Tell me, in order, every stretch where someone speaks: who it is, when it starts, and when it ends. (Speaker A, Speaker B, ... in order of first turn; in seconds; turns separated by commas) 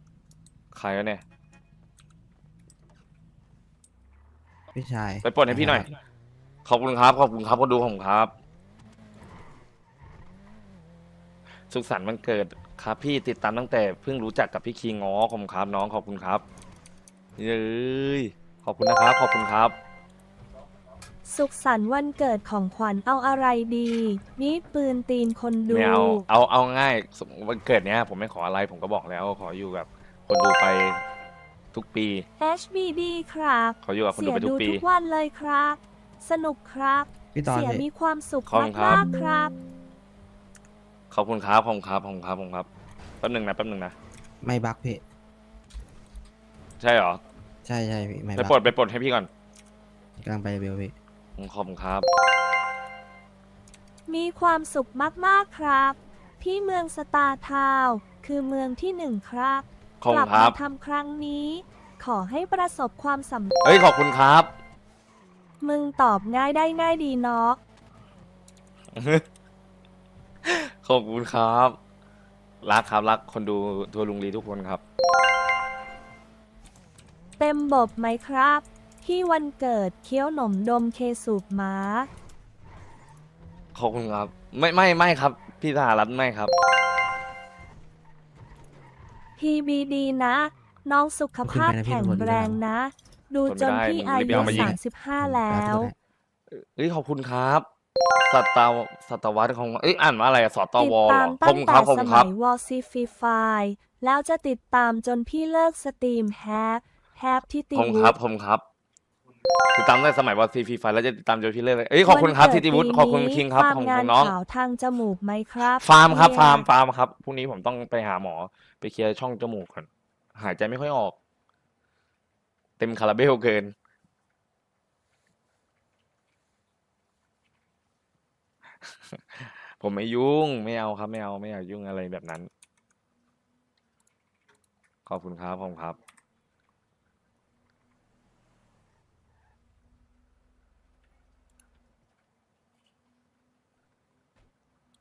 Speaker A: 0.7-1.2, Speaker B: 4.7-5.9, Speaker A: 5.2-5.9, Speaker A: 6.6-8.3, Speaker A: 11.7-16.4, Speaker A: 17.4-19.8, Speaker C: 21.2-26.2, Speaker A: 25.7-31.0, Speaker A: 31.7-32.2, Speaker C: 32.4-39.5, Speaker A: 33.8-34.8, Speaker B: 37.3-37.9, Speaker A: 38.5-39.0, Speaker A: 41.1-42.7, Speaker A: 43.2-43.9, Speaker B: 44.4-45.0, Speaker A: 46.8-47.2, Speaker B: 47.6-48.6, Speaker A: 48.4-49.3, Speaker B: 50.2-50.9, Speaker A: 51.4-52.1, Speaker C: 54.1-63.5, Speaker A: 60.0-60.6, Speaker A: 63.6-64.5, Speaker C: 65.6-67.6, Speaker A: 68.9-69.2, Speaker A: 70.4-71.8, Speaker A: 72.6-74.8, Speaker C: 77.4-82.1, Speaker A: 83.7-86.5, Speaker C: 89.4-95.9, Speaker B: 91.4-92.6, Speaker A: 93.5-94.7, Speaker B: 94.3-96.0, Speaker A: 96.5-97.7, Speaker A: 98.2-102.3, Speaker C: 100.8-108.2, Speaker A: 107.7-108.6, Speaker A: 109.7-114.3, Speaker C: 112.0-116.7, Speaker A: 115.7-121.2, Speaker A: 122.8-123.7, Speaker A: 129.3-132.5, Speaker A: 135.1-136.0